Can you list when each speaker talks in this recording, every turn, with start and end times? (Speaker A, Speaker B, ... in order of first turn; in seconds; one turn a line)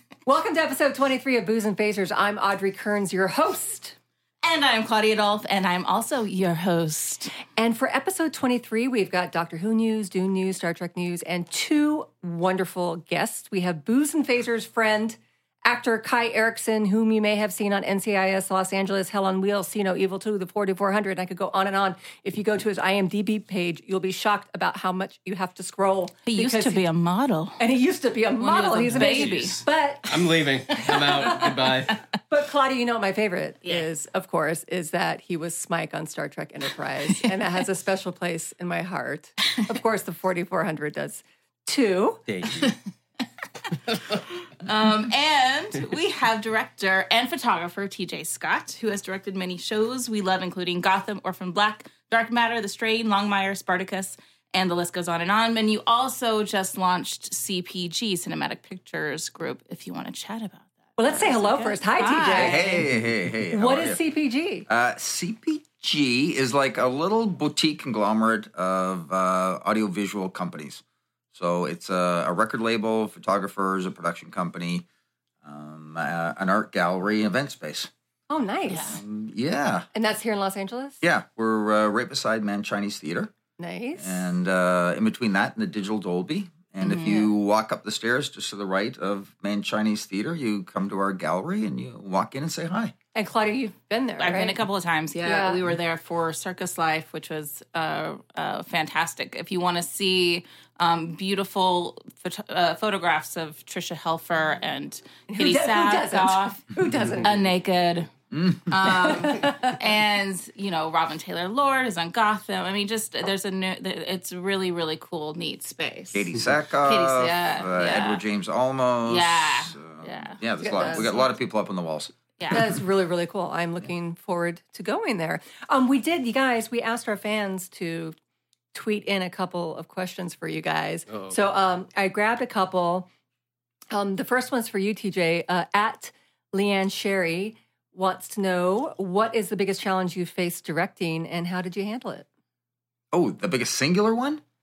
Speaker A: 0.3-4.0
Speaker B: 4.4-7.4
Speaker A: 7.5-26.8
Speaker B: 26.3-27.6
Speaker A: 27.6-30.5
Speaker B: 28.4-29.6
Speaker C: 28.9-32.0
Speaker B: 30.9-31.4
Speaker A: 31.0-31.6
Speaker A: 32.3-42.3
Speaker C: 42.3-42.8
Speaker B: 44.6-62.7
Speaker A: 61.0-62.9
Speaker D: 62.4-64.0
Speaker A: 63.5-64.7
Speaker D: 64.7-70.8
Speaker D: 71.3-74.8
Speaker D: 75.4-77.9
Speaker A: 78.3-79.0
Speaker D: 78.7-79.9
Speaker A: 79.9-81.0
Speaker D: 81.0-83.3
Speaker A: 83.6-84.3
Speaker D: 84.0-92.9
Speaker B: 86.8-87.3
Speaker A: 93.1-94.6
Speaker B: 94.2-106.7
Speaker A: 95.2-95.6
Speaker A: 105.3-107.4
Speaker B: 107.2-108.1
Speaker D: 108.3-109.1
Speaker B: 108.7-116.3
Speaker A: 109.1-109.8
Speaker D: 116.1-122.1
Speaker B: 116.8-118.2
Speaker B: 119.1-121.1
Speaker A: 120.6-121.3
Speaker B: 122.4-122.6
Speaker A: 122.5-128.2
Speaker A: 128.7-133.1
Speaker C: 131.1-131.4
Speaker A: 133.9-142.2
Speaker D: 143.1-144.4